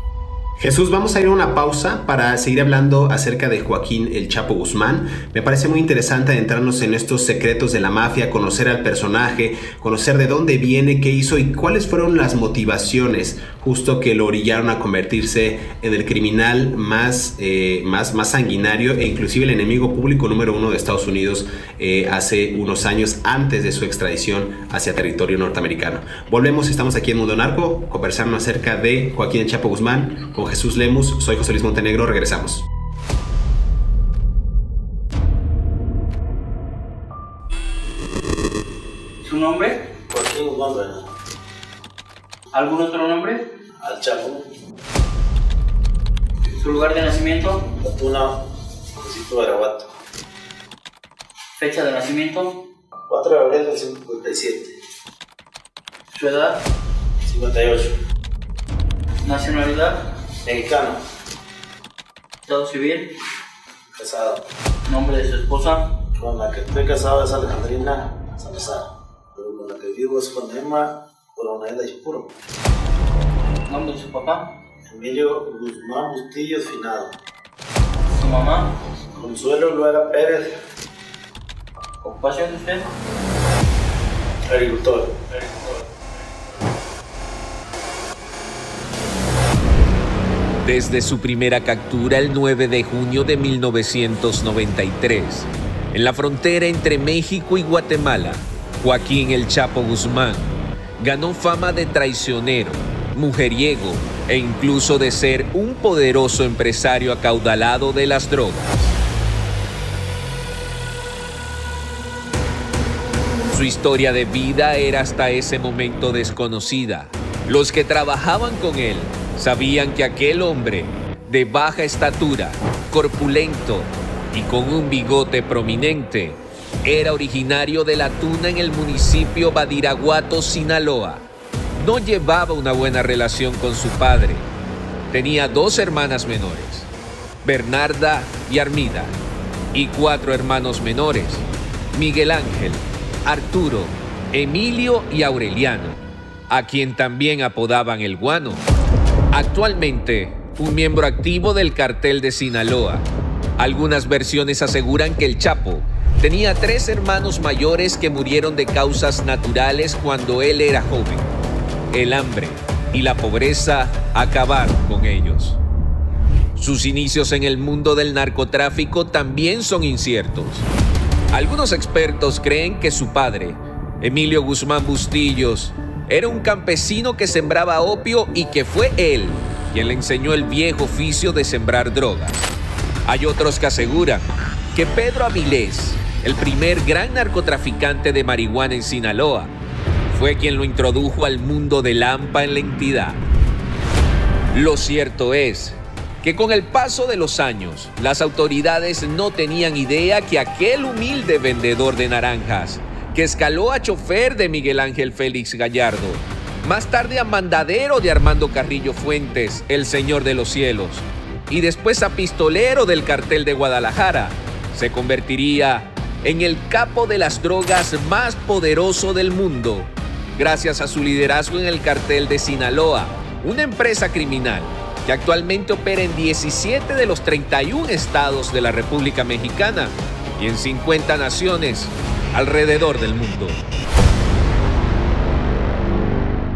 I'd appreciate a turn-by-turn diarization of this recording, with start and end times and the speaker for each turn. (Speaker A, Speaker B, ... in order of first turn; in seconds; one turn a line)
Speaker A: 0.6-32.7
Speaker B: 39.2-39.9
Speaker C: 40.1-41.1
Speaker B: 42.5-43.5
Speaker C: 43.8-44.5
Speaker B: 46.5-47.7
Speaker C: 47.8-48.4
Speaker C: 49.0-49.9
Speaker B: 51.6-52.6
Speaker C: 53.1-54.8
Speaker B: 56.1-56.6
Speaker C: 57.2-57.9
Speaker B: 59.2-60.0
Speaker C: 60.5-61.0
Speaker B: 62.5-63.1
Speaker C: 63.9-64.4
Speaker B: 64.9-65.9
Speaker C: 66.2-72.3
Speaker B: 73.7-74.5
Speaker C: 74.9-77.2
Speaker B: 78.1-78.7
Speaker C: 79.1-80.5
Speaker B: 82.0-82.8
Speaker C: 84.5-85.9
Speaker D: 90.6-108.9
Speaker D: 113.5-131.2
Speaker D: 131.8-134.5
Speaker D: 135.1-136.9
Speaker D: 137.4-139.2
Speaker D: 139.7-146.0
Speaker D: 146.5-148.7
Speaker D: 149.3-153.1
Speaker D: 153.6-161.3
Speaker D: 161.9-165.6
Speaker D: 166.6-170.7
Speaker D: 171.3-182.4
Speaker D: 183.1-189.5
Speaker D: 190.1-193.2
Speaker D: 194.5-233.6